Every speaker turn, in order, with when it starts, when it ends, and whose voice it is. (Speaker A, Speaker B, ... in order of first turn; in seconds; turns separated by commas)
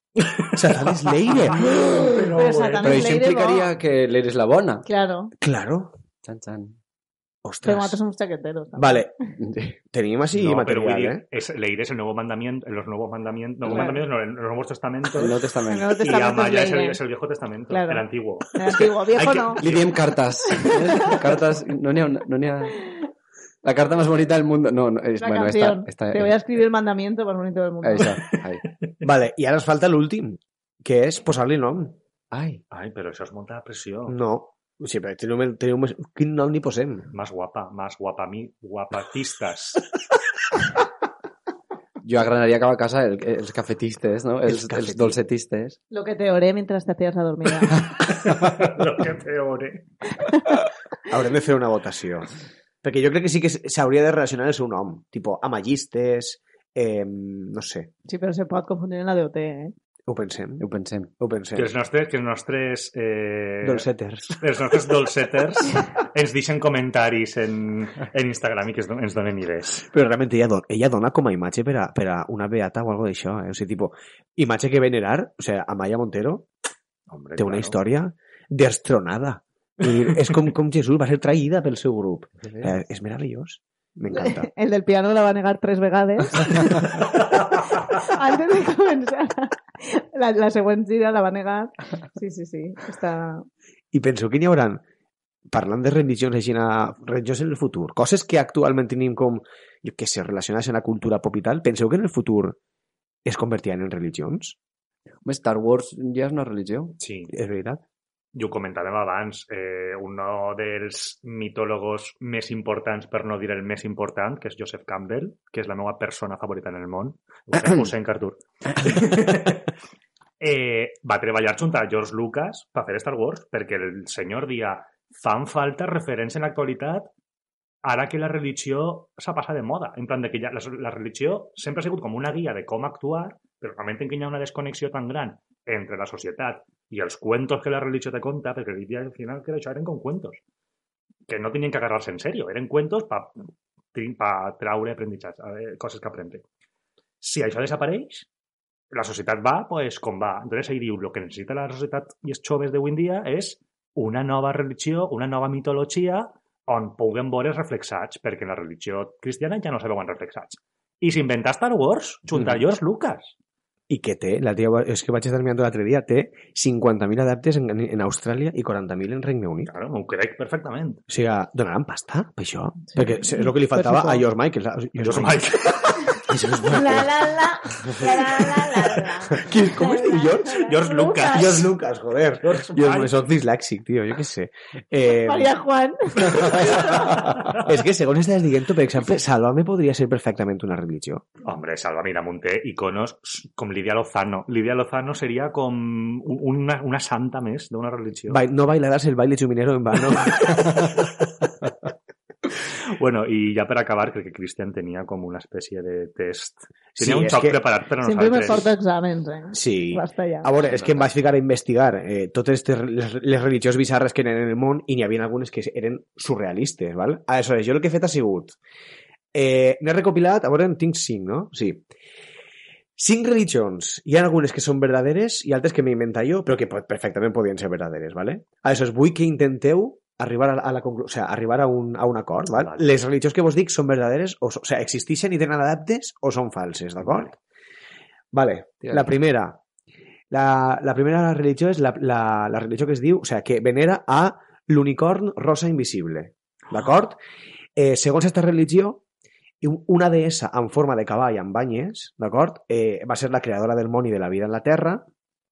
Speaker A: 0.2-3.2, Speaker B: 0.5-1.9, Speaker C: 1.8-3.7, Speaker D: 2.8-4.9, Speaker C: 4.9-5.3, Speaker B: 5.4-6.0, Speaker D: 6.2-6.8, Speaker B: 7.5-8.0, Speaker C: 7.6-9.1, Speaker B: 8.8-9.1, Speaker D: 9.4-9.8, Speaker B: 9.9-11.2, Speaker A: 10.3-20.0, Speaker D: 13.6-14.0, Speaker C: 13.7-14.0, Speaker D: 15.2-15.9, Speaker C: 15.7-17.0, Speaker C: 17.7-19.6, Speaker D: 19.6-22.8, Speaker C: 20.6-21.2, Speaker D: 23.6-26.3, Speaker C: 25.2-28.2, Speaker D: 27.8-28.6, Speaker B: 29.0-32.0, Speaker D: 32.3-32.6, Speaker A: 32.7-34.2, Speaker B: 34.1-37.1, Speaker A: 37.1-39.9, Speaker D: 42.0-45.8, Speaker B: 44.5-45.2, Speaker C: 45.9-47.9, Speaker A: 48.0-49.9, Speaker B: 51.1-52.3, Speaker B: 52.8-57.9, Speaker C: 58.1-59.7, Speaker B: 60.1-60.7, Speaker D: 60.6-61.1, Speaker B: 61.2-61.7, Speaker A: 61.5-63.9, Speaker B: 63.6-64.8, Speaker A: 64.4-69.9, Speaker B: 69.9-76.5, Speaker A: 77.1-77.8, Speaker B: 77.4-84.5, Speaker C: 84.1-87.1, Speaker C: 87.7-93.5, Speaker B: 93.9-94.8, Speaker B: 95.5-102.6, Speaker B: 103.2-104.6, Speaker D: 105.2-107.0, Speaker A: 107.0-107.3, Speaker B: 107.3-107.8, Speaker A: 108.3-119.7, Speaker A: 120.4-127.1, Speaker A: 127.8-140.4, Speaker A: 141.3-143.4, Speaker A: 143.9-146.4, Speaker A: 147.2-148.3, Speaker A: 148.9-163.3, Speaker B: 163.9-169.7, Speaker A: 169.7-171.0, Speaker B: 171.1-175.5, Speaker C: 172.9-174.2, Speaker A: 175.0-176.2, Speaker B: 176.3-177.1, Speaker D: 176.3-177.0, Speaker C: 176.7-181.6, Speaker B: 179.4-180.7, Speaker A: 180.6-181.7, Speaker B: 181.2-185.5, Speaker A: 182.4-183.2, Speaker C: 185.0-187.2, Speaker B: 186.2-191.3, Speaker A: 191.4-198.4, Speaker B: 198.3-201.0, Speaker A: 200.8-201.0, Speaker A: 202.9-208.7, Speaker B: 207.0-207.6, Speaker C: 208.0-210.5, Speaker B: 209.5-218.6, Speaker B: 219.3-221.8, Speaker B: 223.0-237.4, Speaker B: 238.3-239.6, Speaker B: 240.3-247.2, Speaker B: 247.8-249.0, Speaker B: 249.6-255.1